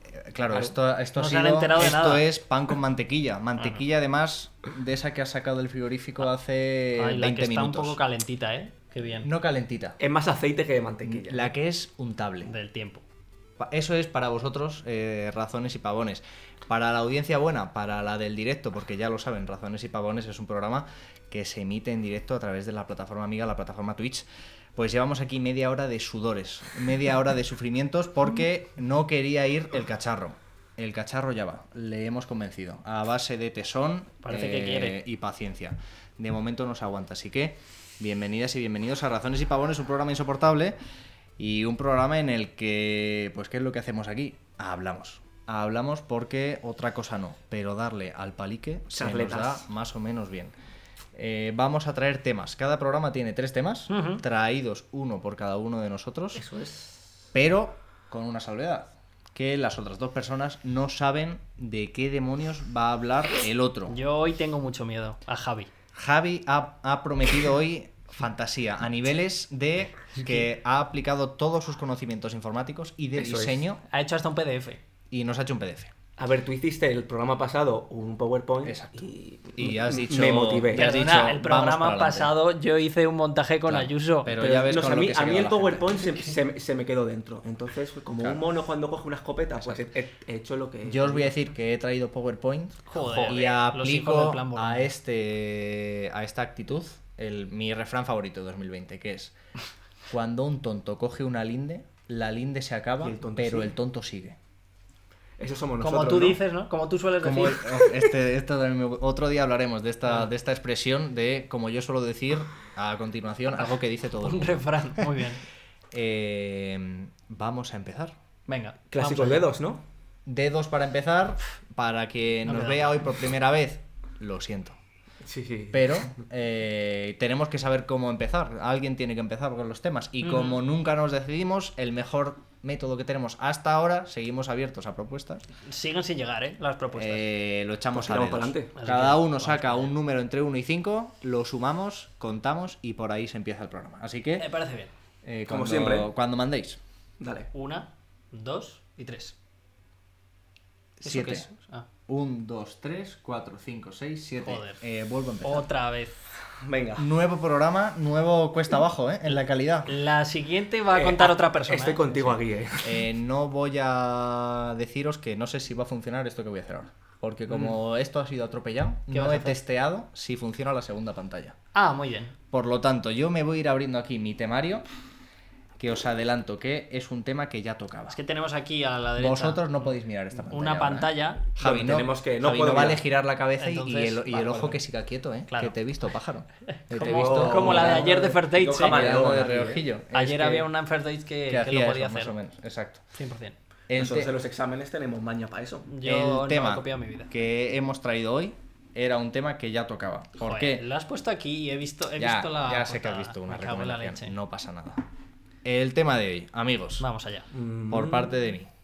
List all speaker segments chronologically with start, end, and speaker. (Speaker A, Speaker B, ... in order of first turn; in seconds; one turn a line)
Speaker A: 0.1-8.0
Speaker B: 1.2-2.2
Speaker B: 7.0-9.3
Speaker A: 9.2-10.0
Speaker C: 10.0-11.5
Speaker A: 11.1-12.5
Speaker B: 12.4-13.0
Speaker A: 13.6-40.8
Speaker B: 34.2-35.0
Speaker A: 41.4-50.5
Speaker C: 48.9-49.6
Speaker A: 51.1-56.4
Speaker B: 53.9-54.2
Speaker C: 56.4-56.9
Speaker A: 57.3-64.0
Speaker B: 63.9-65.7
Speaker A: 66.0-73.8
Speaker C: 73.2-73.6
Speaker B: 73.9-74.8
Speaker A: 75.1-75.9
Speaker C: 76.2-80.9
Speaker A: 78.7-79.0
Speaker A: 79.6-82.3
Speaker B: 80.8-84.4
Speaker A: 83.7-86.0
Speaker C: 84.4-91.3
Speaker A: 90.8-99.3
Speaker B: 92.9-94.9
Speaker C: 93.0-93.5
Speaker A: 100.1-104.4
Speaker C: 103.0-103.7
Speaker C: 105.4-106.4
Speaker B: 105.8-107.7
Speaker A: 107.2-115.1
Speaker B: 113.6-115.4
Speaker A: 115.9-118.2
Speaker B: 118.5-119.5
Speaker C: 118.9-119.8
Speaker A: 120.3-124.8
Speaker B: 122.5-123.1
Speaker C: 125.2-126.1
Speaker A: 125.7-135.4
Speaker B: 130.2-130.6
Speaker B: 135.7-137.2
Speaker A: 136.9-144.5
Speaker C: 137.9-138.7
Speaker B: 138.8-139.9
Speaker B: 144.4-144.9
Speaker A: 145.2-146.8
Speaker C: 145.5-146.1
Speaker C: 147.2-147.5
Speaker B: 147.5-149.3
Speaker B: 151.0-151.9
Speaker A: 151.0-151.5
Speaker A: 152.1-155.7
Speaker B: 154.4-154.8
Speaker B: 155.4-156.2
Speaker C: 156.6-157.1
Speaker A: 157.0-159.9
Speaker B: 159.9-162.3
Speaker C: 160.9-163.0
Speaker A: 162.8-171.6
Speaker C: 167.5-167.8
Speaker B: 169.1-169.6
Speaker B: 171.7-172.3
Speaker A: 172.5-174.8
Speaker A: 175.8-178.2
Speaker B: 178.1-179.6
Speaker A: 179.2-190.7
Speaker B: 180.5-181.4
Speaker C: 181.6-183.0
Speaker B: 183.6-184.8
Speaker B: 185.5-185.8
Speaker B: 186.8-189.1
Speaker C: 186.9-189.8
Speaker B: 190.1-192.3
Speaker A: 191.5-193.0
Speaker B: 193.1-193.6
Speaker A: 193.9-194.3
Speaker C: 193.9-195.9
Speaker B: 195.9-197.3
Speaker A: 196.0-200.8
Speaker B: 200.4-204.3
Speaker A: 202.2-205.1
Speaker A: 205.6-207.0
Speaker B: 207.0-207.5
Speaker C: 207.5-208.4
Speaker A: 207.9-208.7